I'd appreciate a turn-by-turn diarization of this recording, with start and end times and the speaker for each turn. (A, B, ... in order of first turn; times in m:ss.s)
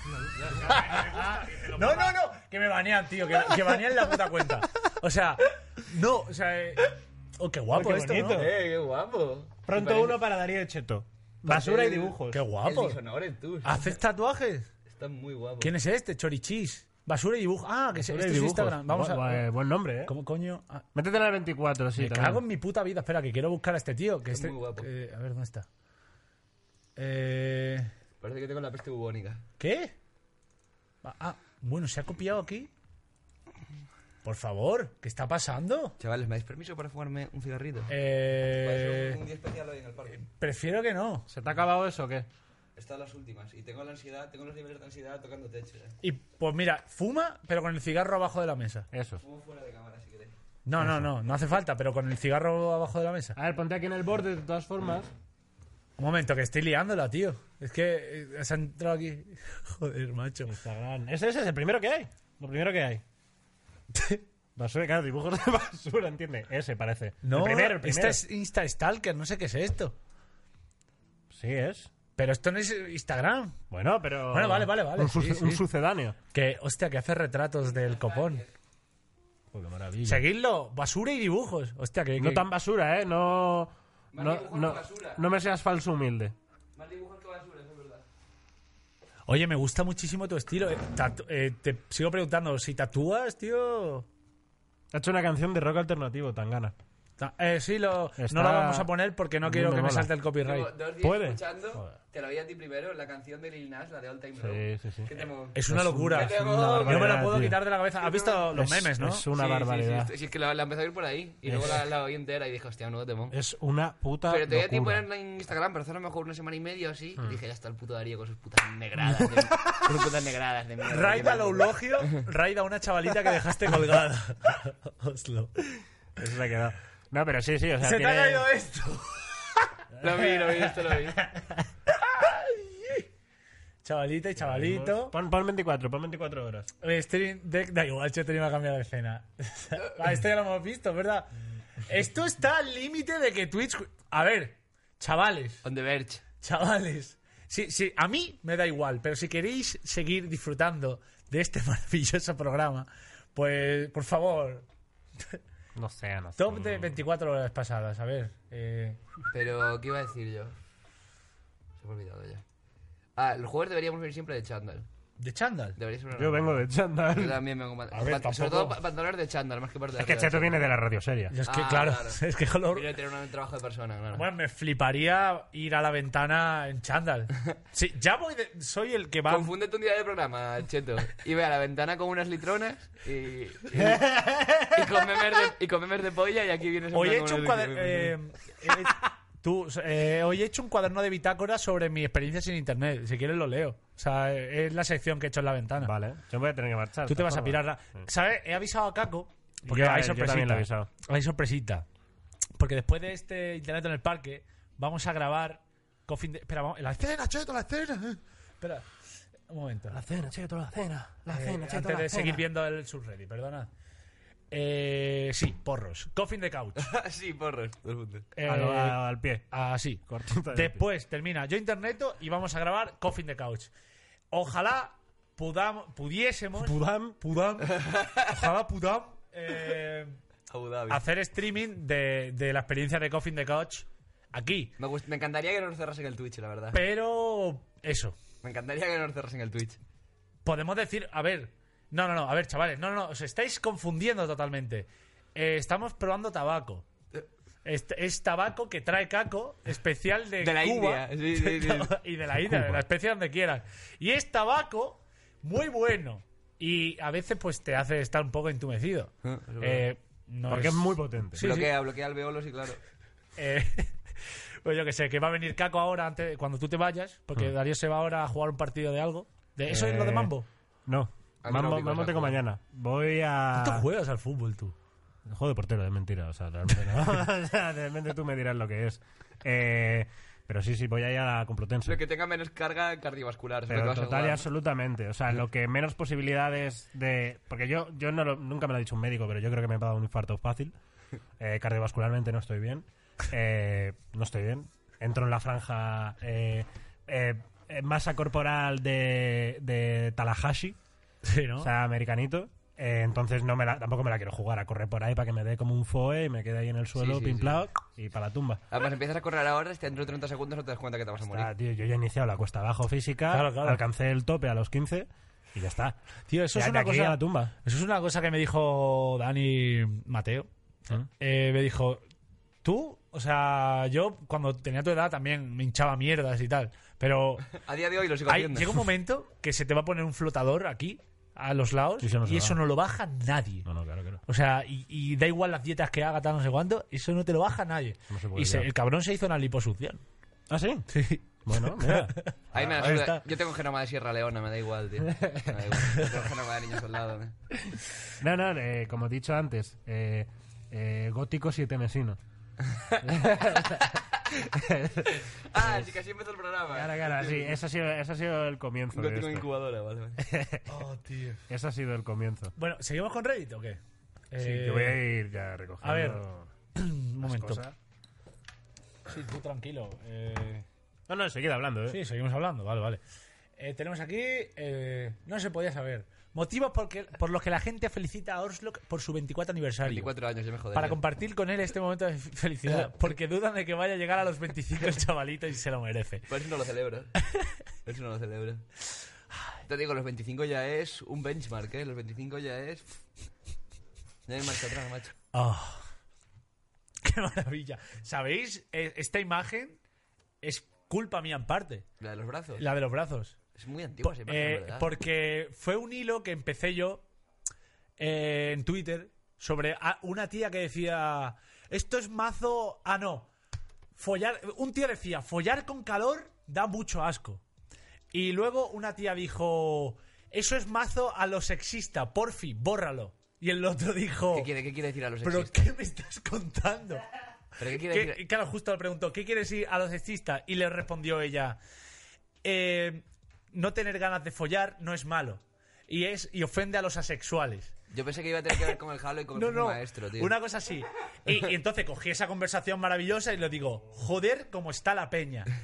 0:00.1-0:02.1 A
0:00.4-0:00.8 B
0:00.7-0:08.5 C
0:07.7-0:08.6 A
0:08.3-0:10.2 B
0:09.6-0:12.4 A
0:11.5-0:13.9 B
0:12.3-0:13.0 C
0:13.6-0:14.7 C
0:14.9-0:15.7 B
0:15.6-0:19.5 C
0:18.0-0:20.1 A
0:20.0-0:20.8 C
0:20.9-0:22.4 A
0:22.0-0:25.7 C
0:24.3-0:24.9 B
0:27.0-0:27.9 C
0:28.2-0:29.4 B
0:29.6-0:29.9 C
0:31.0-0:32.7 C
0:34.2-0:36.0 C
0:36.0-0:37.9 B
0:37.9-0:39.2 C
0:38.5-0:40.2 B
0:40.1-0:41.3 C
0:41.3-0:42.3 A
0:42.8-0:46.0 B
0:46.0-0:48.9 C
0:48.9-0:49.2 A
0:49.2-0:50.3 B
0:50.6-0:53.4 C
0:53.4-0:55.1 A
0:56.0-1:00.5 C
1:00.5-1:03.0 A
1:03.9-1:04.2 C
1:04.6-1:08.2 A
1:07.2-1:10.0 C
1:11.3-1:11.9 A
1:12.2-1:13.6 C
1:13.7-1:16.2 A
1:14.3-1:15.6 C
1:16.3-1:18.4 C
1:17.7-1:18.5 B
1:19.5-1:20.2 A
1:20.0-1:22.4 C
1:22.2-1:26.3 A
1:24.1-1:25.2 B
1:26.8-1:28.0 B
1:29.3-1:34.1 C
1:34.9-1:36.7 A
1:37.2-1:41.4 C
1:38.2-1:38.9 A
1:39.4-1:40.1 A
1:40.4-1:47.2 B
1:44.4-1:47.6 A
1:45.5-1:49.3 C
1:48.0-1:48.4 B
1:48.5-1:50.1 A
1:49.3-1:53.4 B
1:51.4-1:51.8 A
1:53.3-1:55.0 A
1:54.3-2:02.2 B
2:00.9-2:05.8 C
2:06.2-2:08.5 A
2:07.8-2:09.7 C
2:10.0-2:11.2 B
2:10.2-2:10.7 C
2:11.9-2:13.1 C
2:13.8-2:15.2 C
2:14.4-2:16.7 A
2:16.8-2:25.6 C
2:25.6-2:26.2 B
2:26.4-2:34.6 C
2:35.8-2:37.0 A
2:36.4-2:39.0 C
2:39.3-2:40.5 B
2:41.8-2:42.4 B
2:43.2-2:44.9 B
2:45.2-2:45.8 C
2:45.8-2:50.6 B
2:46.2-2:47.4 A
2:47.9-2:48.8 C
2:49.9-2:51.4 A
2:51.3-2:53.0 C
2:51.4-2:54.2 B
2:54.1-2:59.5 C
2:59.3-3:04.0 B
3:03.7-3:04.8 A
3:04.6-3:08.2 B
3:06.9-3:15.9 C
3:15.8-3:18.0 A
3:17.1-3:21.8 C
3:19.7-3:20.9 A
3:22.6-3:28.9 C
3:29.5-3:30.0 C
3:29.9-3:32.4 A
3:31.3-3:33.7 C
3:34.5-3:36.9 C
3:36.8-3:38.3 B
3:38.3-3:43.7 C
3:38.4-3:39.5 A
3:40.1-3:40.8 A
3:44.3-3:50.2 C
3:46.6-3:47.2 A
3:47.7-3:48.3 B
3:50.5-3:51.0 B
3:50.9-3:54.7 C
3:54.8-3:56.8 B
3:56.7-3:58.2 C
3:58.4-3:59.8 B
4:00.4-4:06.8 C
4:07.6-4:21.7 C
4:10.4-4:11.9 B
4:12.5-4:12.8 A
4:19.2-4:19.8 B
4:20.5-4:21.4 A
4:21.4-4:22.8 B
4:23.4-4:30.5 C
4:29.7-4:30.3 A
4:30.9-4:33.8 A
4:31.4-4:32.4 B
4:33.5-4:34.7 C
4:35.3-4:42.0 A
4:41.8-4:44.5 B
4:43.7-4:50.7 A
4:51.4-5:00.8 A
5:01.2-5:01.7 C
5:01.6-5:08.6 A
5:07.0-5:07.6 B
5:08.7-5:11.5 B
5:11.3-5:16.0 A
5:13.3-5:13.8 C
5:16.3-5:20.5 C
5:16.5-5:17.5 A
5:21.1-5:22.0 C
5:22.6-5:27.5 C
5:27.5-5:28.8 B
5:28.2-5:33.6 C
5:32.0-5:32.6 A
5:33.6-5:34.2 A
5:34.3-5:40.0 C
5:38.1-5:38.7 A
5:40.5-5:42.2 A
5:40.9-5:43.2 C
5:42.5-5:47.3 B
5:45.2-5:45.5 A
5:48.2-5:52.2 A
5:52.7-5:54.0 B
5:53.0-5:55.9 A
5:55.4-5:57.6 B
5:56.7-5:59.5 A
5:58.9-6:00.2 B
6:00.2-6:00.7 A
6:00.7-6:01.4 C
6:01.5-6:02.5 A
6:02.6-6:03.8 C
6:04.3-6:05.0 C
6:04.4-6:06.5 A
6:05.8-6:06.2 C
6:06.7-6:07.6 C
6:07.2-6:07.7 A
6:09.0-6:10.6 C
6:11.1-6:12.0 A
6:11.9-6:13.0 C
6:13.6-6:20.1 C
6:19.8-6:21.0 B
6:20.7-6:26.3 C
6:26.3-6:27.1 B
6:27.2-6:27.5 C
6:27.8-6:28.6 B
6:29.6-6:32.8 B
6:34.3-6:35.1 B
6:35.3-6:35.8 C
6:37.0-6:39.8 C
6:40.4-6:41.8 C
6:42.0-6:42.6 B
6:42.6-6:43.4 C
6:43.5-6:44.9 B
6:44.0-6:47.0 C
6:48.0-6:53.3 C
6:53.9-6:57.4 C
6:58.1-7:04.5 C
7:04.3-7:05.6 B
7:05.2-7:07.0 C
7:07.6-7:08.2 B
7:07.6-7:11.6 C
7:12.4-7:17.8 C
7:17.9-7:20.4 B
7:19.3-7:25.5 C